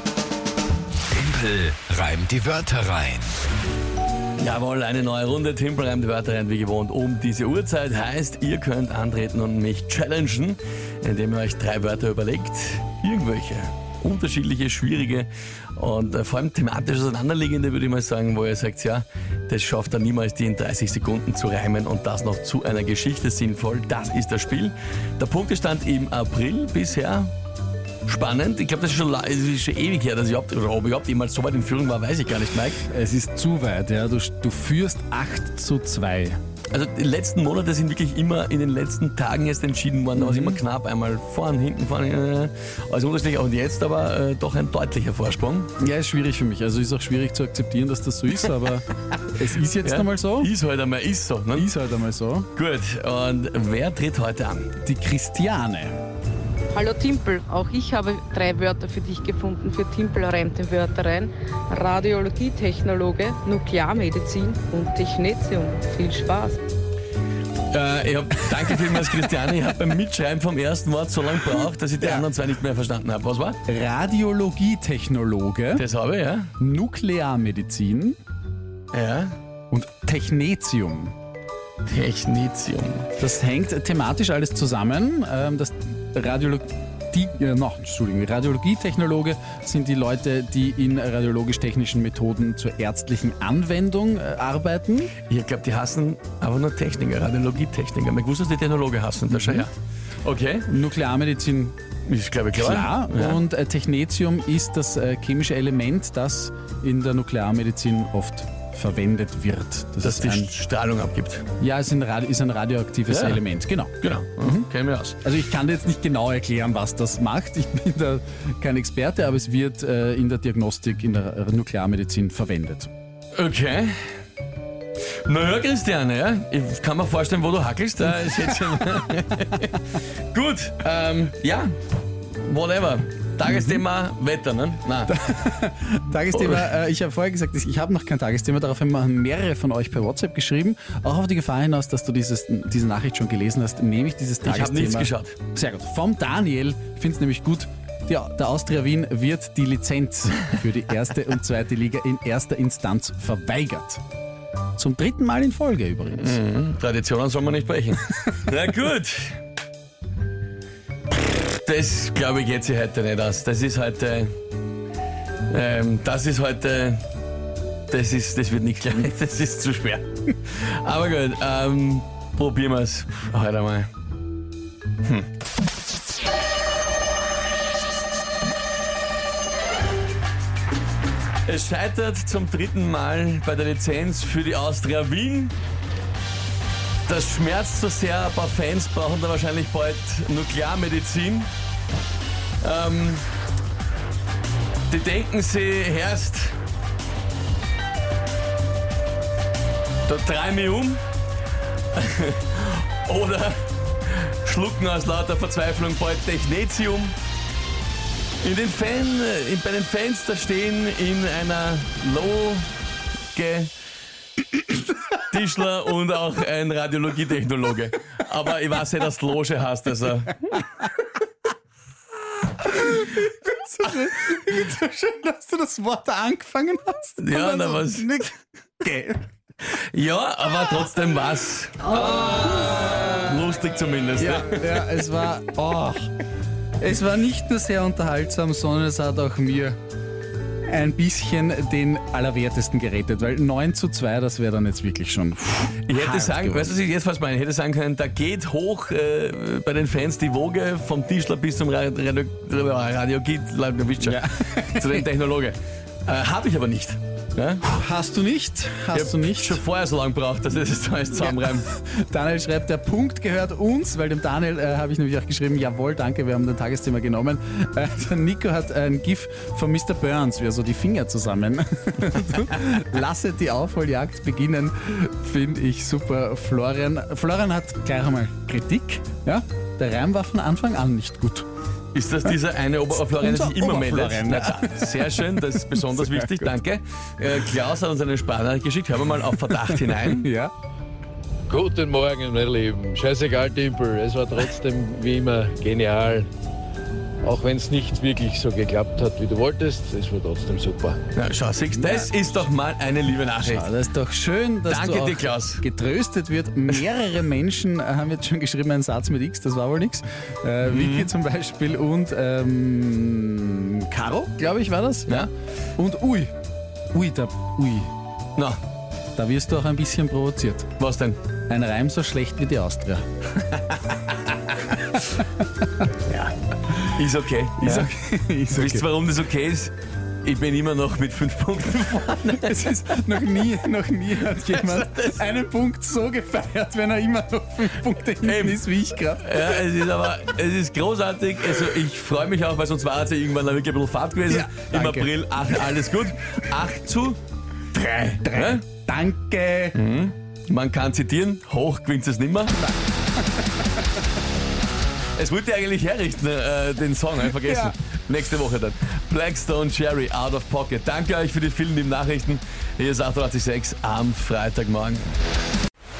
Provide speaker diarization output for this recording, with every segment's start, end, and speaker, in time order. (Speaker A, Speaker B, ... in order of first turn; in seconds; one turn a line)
Speaker A: 1.2-3.3
Speaker B: 4.4-27.3
Speaker B: 28.1-32.8
Speaker C: 32.8-36.4
Speaker B: 36.7-45.7
Speaker C: 40.1-40.6
Speaker C: 45.8-50.5
Speaker B: 49.8-51.7
Speaker C: 51.5-52.5
Speaker B: 52.5-54.7
Speaker C: 54.8-56.0
Speaker D: 56.7-66.6
Speaker B: 67.7-73.6
Speaker C: 72.0-72.3
Speaker C: 73.7-75.8
Speaker B: 75.8-76.5
Speaker C: 76.6-78.2
Speaker B: 78.9-79.3
Speaker C: 79.7-81.1
Speaker B: 81.8-83.1
Speaker C: 83.2-95.1
Speaker B: 95.3-99.7
Speaker C: 99.3-99.7
Speaker B: 100.2-100.7
Speaker C: 100.7-101.8
Speaker B: 102.1-103.4
Speaker C: 102.5-110.5
Speaker B: 110.0-111.4
Speaker C: 111.6-114.7
Speaker B: 113.1-113.4
Speaker B: 114.0-115.2
Speaker C: 115.2-122.9
Speaker B: 123.3-124.2
Speaker B: 125.2-129.8
Speaker B: 130.3-131.7
Speaker B: 132.3-135.1
Speaker C: 133.5-133.8
Speaker C: 135.1-154.0
Speaker B: 136.4-136.6
Speaker B: 144.4-145.4
Speaker C: 154.8-156.4
Speaker B: 156.2-159.4
Speaker B: 161.6-164.3
Speaker B: 165.5-167.0
Speaker B: 167.9-173.9
Speaker B: 175.0-175.3
Speaker B: 181.4-185.5
Speaker B: 187.1-191.5
Speaker B: 192.6-193.3
Speaker B: 194.9-196.6
Speaker B: 200.1-201.0
Speaker B: 201.9-207.2
Speaker B: 208.4-212.7
Speaker B: 213.3-213.7
Speaker B: 215.3-220.5
Speaker C: 222.6-229.2
Speaker B: 227.2-228.1
Speaker B: 229.8-234.9
Speaker C: 234.2-236.1
Speaker C: 236.8-239.8
Speaker C: 240.7-246.8
Speaker B: 245.9-257.8
Speaker C: 254.0-255.1
Speaker C: 257.7-259.6
Speaker B: 258.9-261.7
Speaker C: 261.1-281.5
Speaker B: 281.9-290.3
Speaker C: 282.9-286.5
Speaker C: 289.4-290.5
Speaker E: 291.5-296.3
Speaker E: 297.2-301.0
Speaker B: 301.1-303.7
Speaker C: 301.8-302.1
Speaker C: 303.4-316.3
Speaker B: 304.7-305.6
Speaker B: 310.6-311.1
Speaker C: 316.9-317.9
Speaker C: 319.1-320.7
Speaker B: 320.8-321.2
Speaker C: 321.5-323.0
Speaker B: 326.9-327.9
Speaker C: 327.6-328.9
Speaker B: 328.5-329.7
Speaker B: 330.2-332.7
Speaker C: 332.3-339.6
Speaker B: 334.2-335.2
Speaker B: 338.2-338.6
Speaker B: 339.2-347.2
Speaker C: 344.3-345.1
Speaker B: 347.7-348.6
Speaker C: 348.1-349.8
Speaker B: 349.7-352.6
Speaker C: 352.6-353.7
Speaker B: 355.2-365.0
Speaker C: 357.3-357.7